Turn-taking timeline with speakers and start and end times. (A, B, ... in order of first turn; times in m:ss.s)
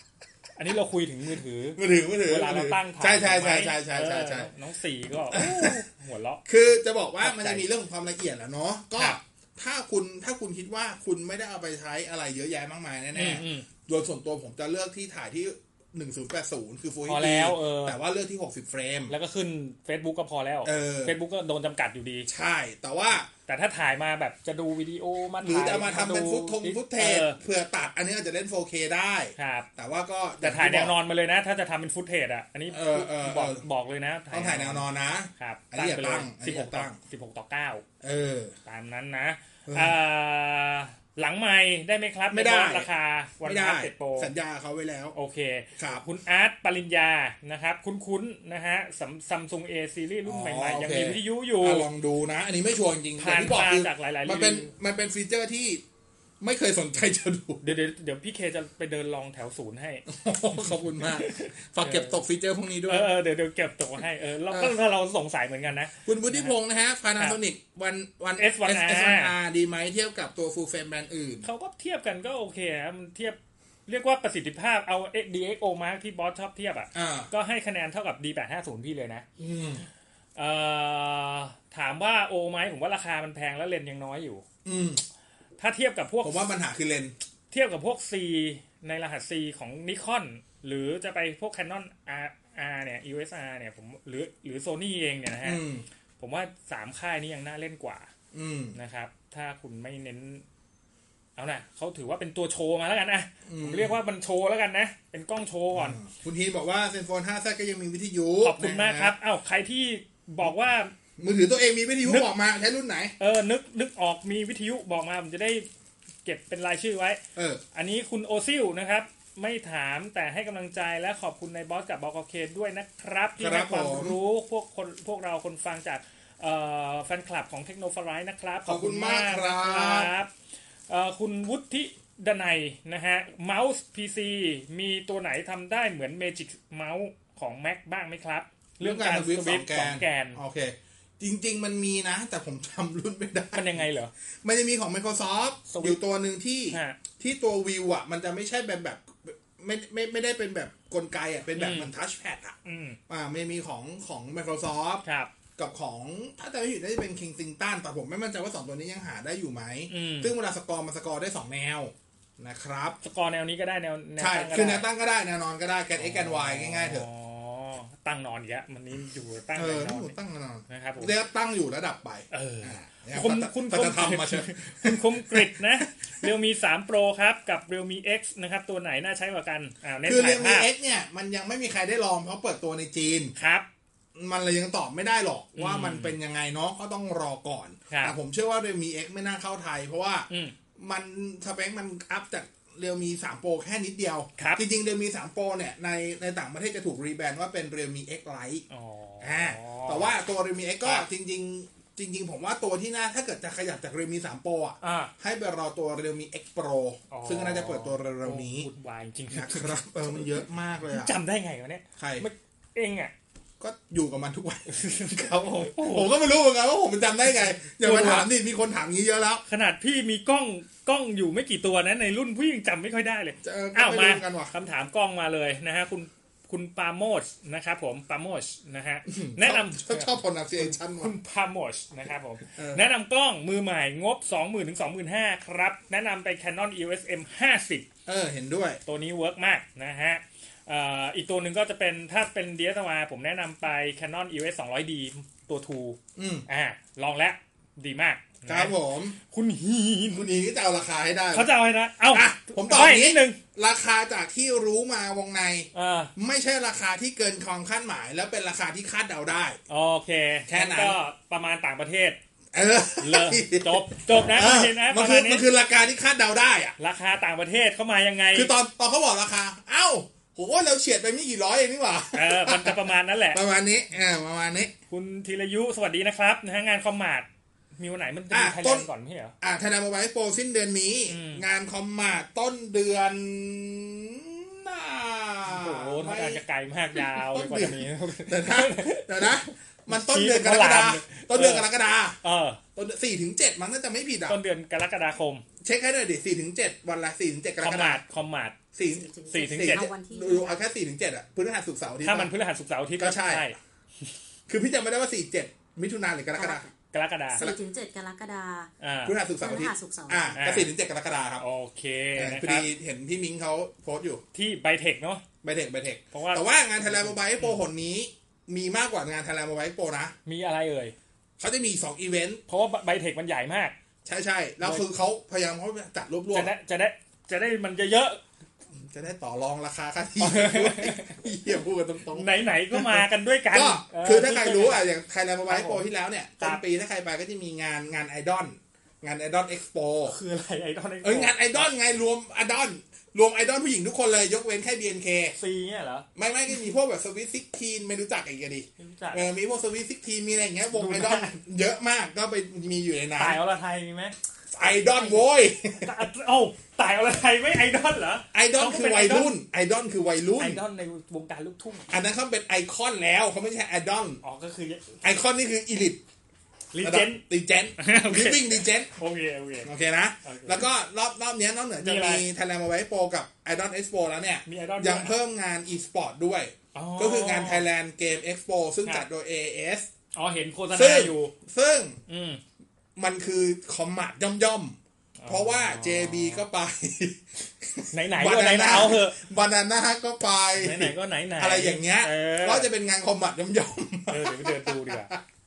0:00.6-0:06.5 A
0:01.8-0:04.5 B
0:05.3-0:05.8 B
0:06.5-0:19.1 B
0:07.2-0:07.6 A
0:13.1-0:13.7 A
0:17.1-0:18.0 A
0:19.1-0:22.3 A
0:20.6-0:21.2 B
0:22.3-0:23.3 B
0:23.5-0:27.4 A
0:25.4-0:31.0 B
0:29.4-0:29.7 A
0:30.4-0:34.8 A
0:32.7-0:33.6 B
0:34.3-0:37.0 B
0:35.4-0:37.9 A
0:38.0-0:38.6 B
0:38.7-0:44.3 A
0:39.7-0:39.9 B
0:42.3-0:42.9 B
0:43.4-0:45.2 B
0:45.2-0:51.9 A
0:45.8-0:46.0 B
0:50.2-0:55.8 B
0:53.2-0:54.7 A
0:56.4-0:57.7 B
0:57.6-1:00.1 A
1:00.1-1:03.1 B
1:00.9-1:02.2 A
1:02.9-1:06.5 A
1:04.5-1:04.8 B
1:06.0-1:11.5 B
1:08.4-1:09.3 A
1:11.4-1:19.2 A
1:17.0-1:17.3 B
1:19.4-1:19.9 B
1:20.4-1:24.4 A
1:24.6-1:25.0 B
1:25.6-1:26.5 A
1:26.2-1:27.2 B
1:27.5-1:35.6 A
1:35.4-1:35.8 B
1:36.2-1:38.1 A
1:38.3-1:38.8 B
1:38.8-1:40.4 A
1:41.4-1:46.0 A
1:43.5-1:44.0 B
1:45.8-1:49.1 B
1:48.4-1:50.9 A
1:51.2-1:53.1 B
1:53.2-1:55.7 A
1:56.2-1:57.2 A
1:57.4-1:57.6 B
1:57.7-2:10.3 A
2:03.4-2:04.2 B
2:08.7-2:10.1 B
2:10.9-2:20.4 A
2:18.8-2:23.9 B
2:23.5-2:24.1 A
2:24.4-2:32.6 B
2:25.7-2:26.0 A
2:26.7-2:27.0 A
2:31.6-2:31.9 A
2:32.6-2:33.0 A
2:33.1-2:35.0 B
2:35.0-2:35.3 A
2:35.6-2:43.0 B
2:39.9-2:40.3 A
2:43.0-2:44.9 A
2:44.2-2:47.1 B
2:46.0-2:50.1 A
2:49.6-2:56.3 B
2:50.7-2:51.1 A
2:52.3-3:00.7 A
3:00.0-3:03.3 B
3:03.4-3:03.7 A
3:04.2-3:18.6 B
3:05.6-3:06.2 A
3:07.9-3:08.2 A
3:10.3-3:10.6 A
3:14.4-3:14.6 A
3:18.7-3:20.1 A
3:19.2-3:28.7 B
3:24.8-3:25.1 A
3:27.1-3:30.4 A
3:29.3-3:31.2 B
3:30.9-3:33.1 A
3:32.0-3:32.3 B
3:33.6-3:39.4 B
3:34.7-3:36.1 A
3:37.7-3:38.3 A
3:39.5-3:57.9 A
3:43.4-3:44.5 B
3:49.1-3:51.1 B
3:52.5-3:52.8 B
3:58.1-3:58.8 B
3:58.9-4:10.3 A
4:06.2-4:06.4 B
4:08.5-4:09.2 B
4:10.1-4:11.5 B
4:11.3-4:13.4 A
4:12.1-4:19.6 B
4:15.7-4:16.1 A
4:19.7-4:22.2 A
4:20.5-4:21.0 B
4:22.5-4:26.8 B
4:23.0-4:25.5 A
4:26.8-4:28.5 A
4:28.3-4:34.7 B
4:32.1-4:33.4 A
4:34.9-4:39.4 A
4:38.3-4:38.9 B
4:39.4-4:46.4 B
4:41.1-4:41.4 A
4:45.5-4:51.7 A
4:46.9-4:52.2 B
4:52.2-4:52.6 A
4:52.8-4:54.4 B
4:54.3-4:55.4 A
4:55.6-4:58.0 B
4:57.6-4:58.6 A
4:58.7-5:02.3 B
4:58.9-5:00.6 C
4:59.3-4:59.9 A
5:02.0-5:03.6 A
5:03.0-5:03.5 B
5:04.5-5:06.7 B
5:06.4-5:06.7 C
5:06.9-5:07.4 A
5:07.3-5:08.7 C
5:08.8-5:09.2 A
5:09.0-5:11.4 B
5:09.4-5:10.4 C
5:10.4-5:10.7 A
5:11.4-5:12.7 A
5:12.2-5:14.2 B
5:14.3-5:15.2 A
5:15.4-5:20.2 B
5:16.1-5:17.6 A
5:20.3-5:21.0 A
5:21.4-5:22.4 B
5:22.5-5:23.8 A
5:24.0-5:26.5 B
5:26.3-5:28.2 A
5:28.8-5:40.2 B
5:30.2-5:31.2 A
5:32.1-5:34.9 A
5:35.5-5:35.9 A
5:40.1-5:41.7 A
5:41.0-5:45.4 B
5:45.4-5:46.1 A
5:46.2-5:53.4 B
5:48.8-5:49.3 A
5:50.7-5:51.4 A
5:53.2-5:54.2 A
5:54.5-5:56.0 B
5:55.8-5:59.3 A
5:58.3-6:00.6 B
6:00.4-6:01.9 A
6:01.9-6:04.2 B
6:04.2-6:05.0 A
6:05.0-6:06.0 B
6:06.7-6:07.2 A
6:06.8-6:09.0 B
6:07.8-6:09.7 A
6:09.6-6:19.9 B
6:10.2-6:10.6 A
6:11.8-6:12.3 A
6:14.5-6:15.1 A
6:16.8-6:17.7 A
6:20.2-6:21.3 A
6:20.7-6:22.0 B
6:22.1-6:22.4 A
6:23.0-6:35.2 B
6:25.2-6:26.4 A
6:27.9-6:29.2 A
6:30.6-6:32.7 A
6:34.1-6:35.1 A